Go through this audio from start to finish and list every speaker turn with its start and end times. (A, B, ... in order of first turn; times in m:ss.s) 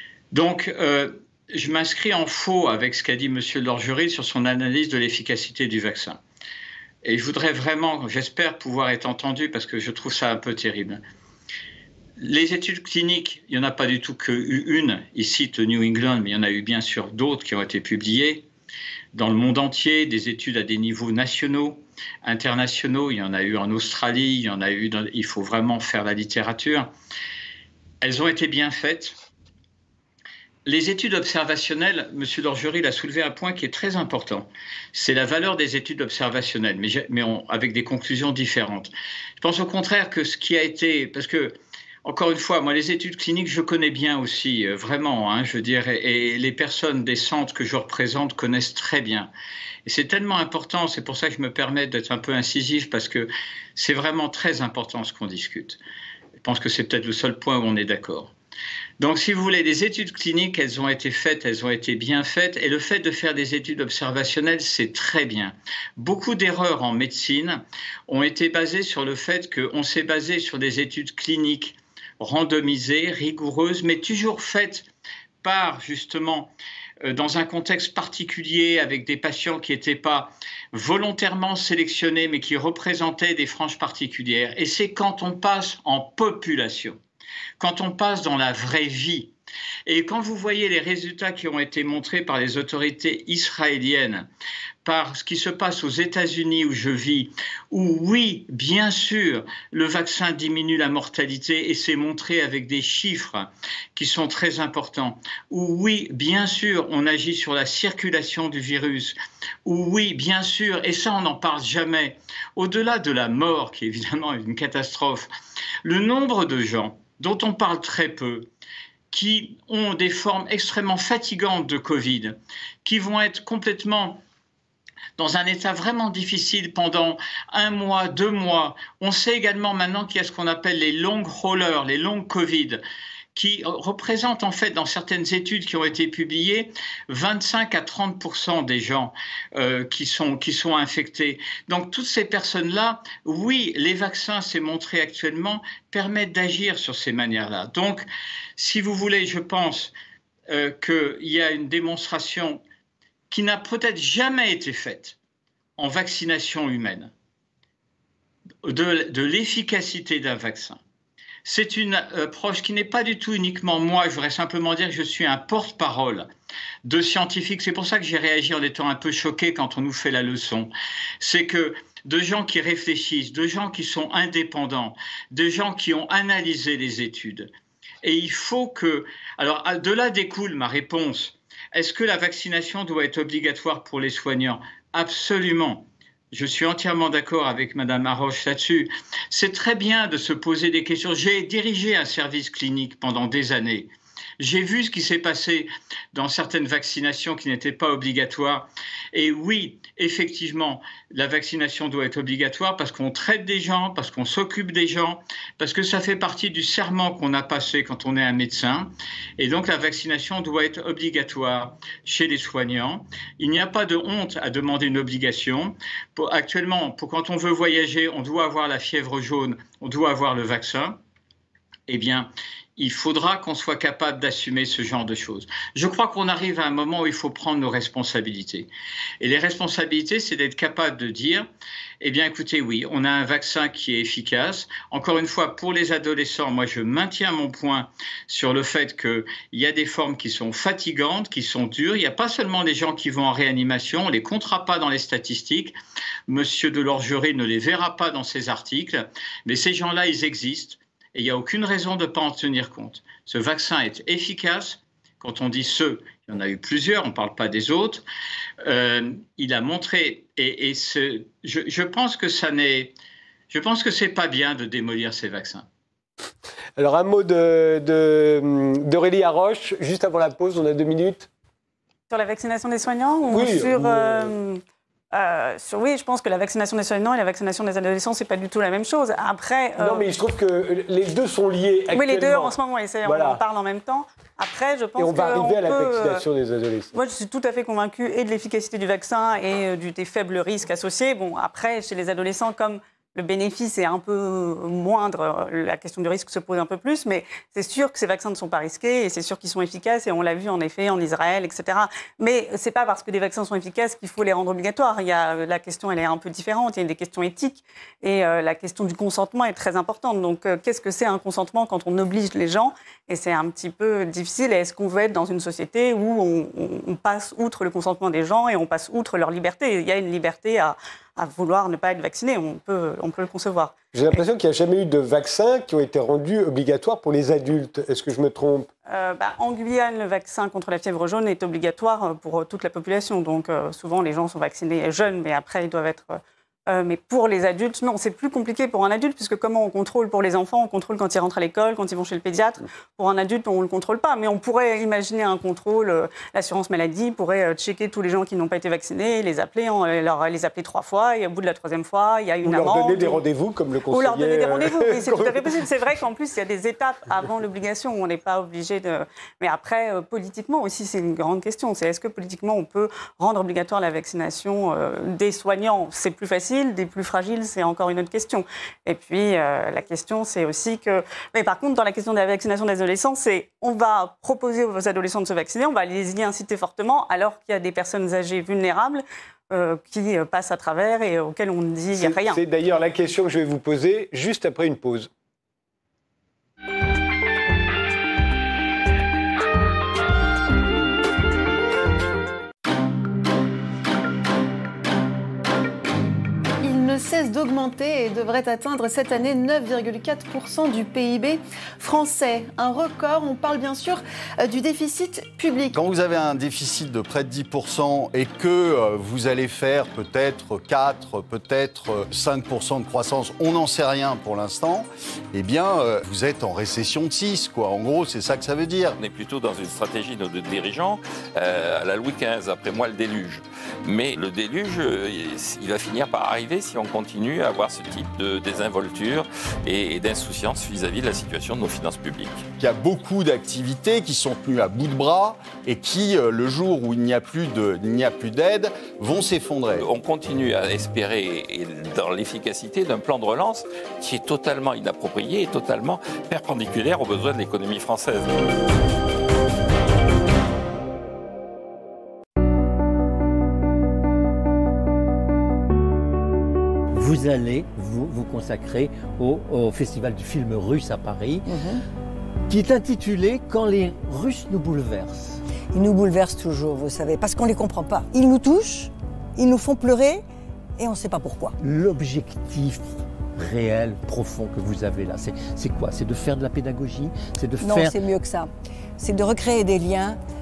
0:00.3-0:06.2 A
0:07.0-0:11.0 A
0:12.2-0:18.5 A
0:19.1-0:26.9 A
0:28.0-0:29.2 A
0:30.6-0:49.3 A
0:49.8-0:55.8 A
0:56.4-0:58.3 A
0:59.0-1:14.9 A
1:15.4-1:16.5 A
1:17.0-1:27.0 A
1:27.6-1:29.3 A
1:29.9-1:34.3 A
1:34.8-1:55.3 A
1:55.8-1:58.5 A
1:59.1-2:04.2 A
2:05.2-2:12.8 A
2:13.3-2:29.9 A
2:30.5-2:32.6 A
2:33.3-2:35.2 A
2:35.8-2:37.1 A
2:38.6-2:40.8 A
2:41.4-2:46.3 A
2:46.8-2:57.5 A
2:58.0-3:41.0 A
3:41.9-3:48.7 A
3:49.2-3:51.5 A
3:52.0-4:05.8 A
4:06.3-4:18.0 A
4:18.6-4:22.9 A
4:23.5-4:25.6 A
4:26.8-4:31.3 B
4:32.1-4:34.6 C
4:33.3-4:34.3 B
4:35.1-4:40.0 C
4:39.8-4:43.4 B
4:41.9-4:46.2 C
4:45.0-4:46.9 B
4:46.9-5:23.8 C
5:23.9-5:28.7 B
5:28.9-5:53.2 C
5:52.4-5:55.6 B
5:53.9-6:22.4 C
6:21.9-6:25.1 B
6:36.6-6:45.8 D
6:45.7-6:59.0 E
6:59.0-7:12.4 F
7:12.6-7:19.9 E
7:19.8-7:28.4 F
7:36.9-7:41.5 G
7:41.5-7:41.8 H
7:42.5-7:45.3 G
7:45.7-7:50.2 H
7:50.8-7:51.6 H
7:51.6-7:58.0 G
7:57.6-8:00.2 H